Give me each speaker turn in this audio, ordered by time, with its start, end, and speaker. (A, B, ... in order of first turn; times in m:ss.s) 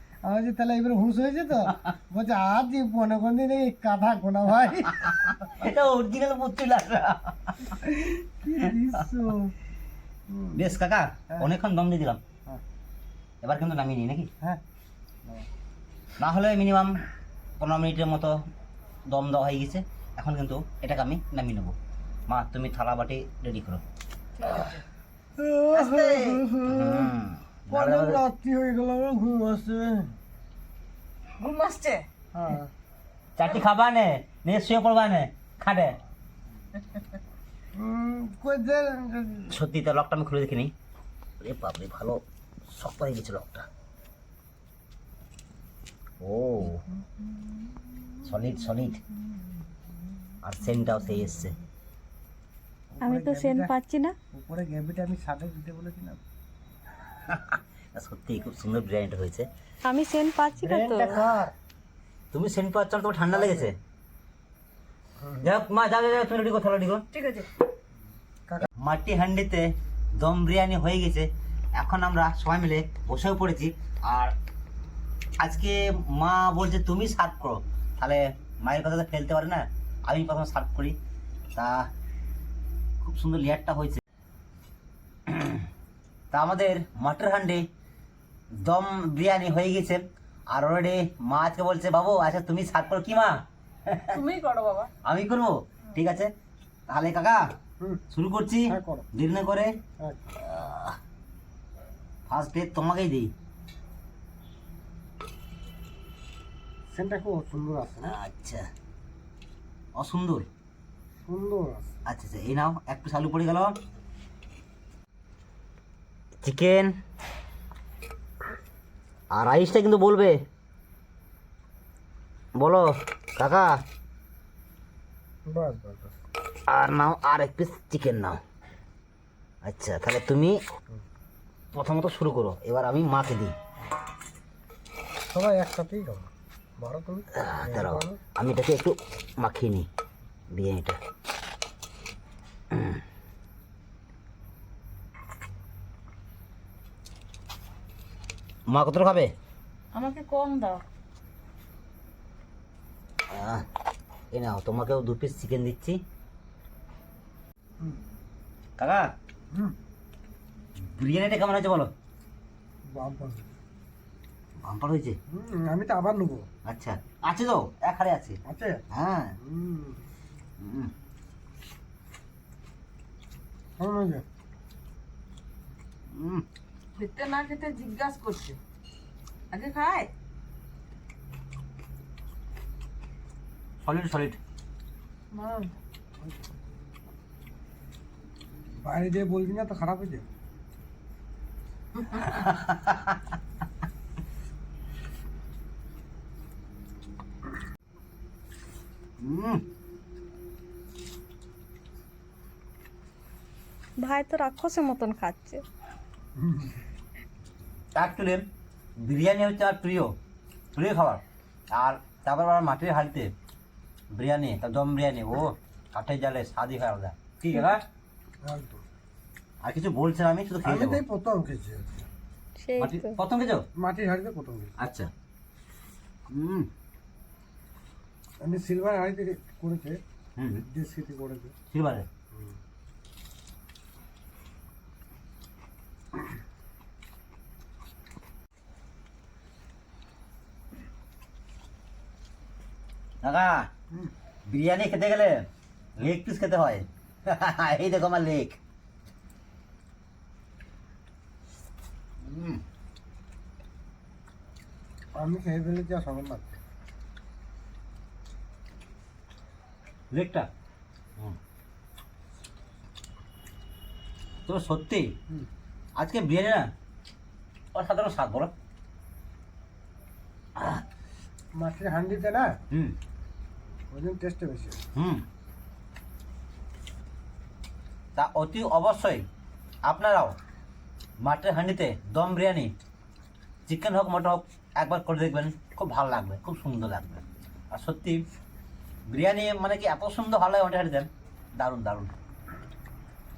0:00.2-0:05.4 A
0:05.0-0:07.8 B
0:07.8-0:09.5 A
0:10.3-0:10.7 A
0:10.6-0:12.2 B
0:13.4-0:14.3 B
0:16.2-0:17.0 B
0:17.6-0:18.4 B
0:19.1-0:21.8 B
0:22.3-0:23.8 B
0:24.4-0:24.7 C
0:25.4-0:27.1 A
0:25.7-0:28.2 B
0:27.7-0:30.1 A
0:31.4-0:32.1 C
0:32.4-0:32.7 A
0:33.4-0:36.0 B
0:37.8-0:39.6 A
0:39.5-0:40.7 B
0:41.4-0:43.7 B
0:46.2-0:46.8 B
0:48.2-0:49.0 B
0:50.4-0:51.5 B
0:52.9-0:53.7 A
0:53.0-0:54.2 D
0:54.3-0:56.2 A
0:57.3-0:59.5 B
0:59.8-1:01.2 D
1:00.6-1:01.5 A
1:02.3-1:03.8 B
1:03.3-1:03.7 A
1:05.4-1:07.0 B
1:07.2-1:07.5 C
1:08.8-1:14.3 B
1:15.4-1:21.0 B
1:21.6-1:21.9 B
1:23.0-1:24.0 B
1:25.3-1:25.6 B
1:26.3-1:27.6 B
1:28.6-1:33.4 B
1:33.9-1:34.2 B
1:34.1-1:34.9 C
1:35.0-1:36.3 B
1:36.9-1:37.4 B
1:38.1-1:39.7 B
1:38.7-1:39.1 A
1:40.4-1:41.0 B
1:42.3-1:43.3 B
1:46.9-1:48.2 A
1:48.0-1:48.6 B
1:50.0-1:50.5 B
1:51.3-1:51.9 A
1:52.1-1:53.7 B
1:56.4-1:56.9 B
1:59.3-2:00.4 B
2:02.6-2:03.8 B
2:05.5-2:06.2 A
2:06.7-2:08.4 B
2:09.7-2:10.6 B
2:11.7-2:13.5 B
2:15.3-2:18.2 A
2:17.4-2:19.9 B
2:20.5-2:21.0 B
2:28.7-2:29.3 B
2:29.9-2:30.8 C
2:33.3-2:33.6 B
2:34.3-2:36.0 B
2:38.8-2:39.1 B
2:40.9-2:41.9 B
2:42.9-2:43.5 A
2:44.6-2:45.2 B
2:45.3-2:46.5 A
2:46.6-2:48.4 B
2:48.4-2:48.8 A
2:48.9-2:49.4 B
2:49.4-2:50.0 A
2:50.6-2:50.9 B
2:53.8-2:54.2 A
2:56.1-2:56.4 B
2:57.0-2:58.6 C
2:59.5-3:00.1 C
3:03.8-3:04.4 B
3:05.3-3:05.7 C
3:08.8-3:10.3 A
3:12.2-3:13.1 B
3:19.2-3:19.6 B
3:24.0-3:25.6 D
3:26.4-3:26.7 A
3:28.0-3:28.4 B
3:29.0-3:30.1 B
3:30.8-3:31.2 B
3:31.7-3:33.3 B
3:34.2-3:37.8 B
3:38.4-3:38.8 A
3:39.6-3:41.0 B
3:40.6-3:42.1 A
3:42.6-3:43.2 D
3:42.8-3:43.6 B
3:43.8-3:44.7 A
3:44.8-3:45.1 B
3:46.3-3:46.7 B
3:48.4-3:50.0 A
3:50.4-3:50.6 B
3:50.7-3:51.5 A
3:51.7-3:52.1 B
4:03.2-4:03.7 B
4:04.5-4:05.5 B
4:06.0-4:08.6 B
4:12.2-4:12.6 B
4:15.2-4:16.6 A
4:20.1-4:20.5 B
4:24.5-4:25.1 B
4:26.0-4:26.6 B
4:27.7-4:28.5 B
4:31.6-4:32.6 A
4:33.9-4:34.8 A
4:35.0-4:35.2 B
4:38.2-4:39.2 B
4:39.9-4:40.4 B
4:41.2-4:42.7 B
4:43.7-4:48.2 B
4:49.1-4:52.1 B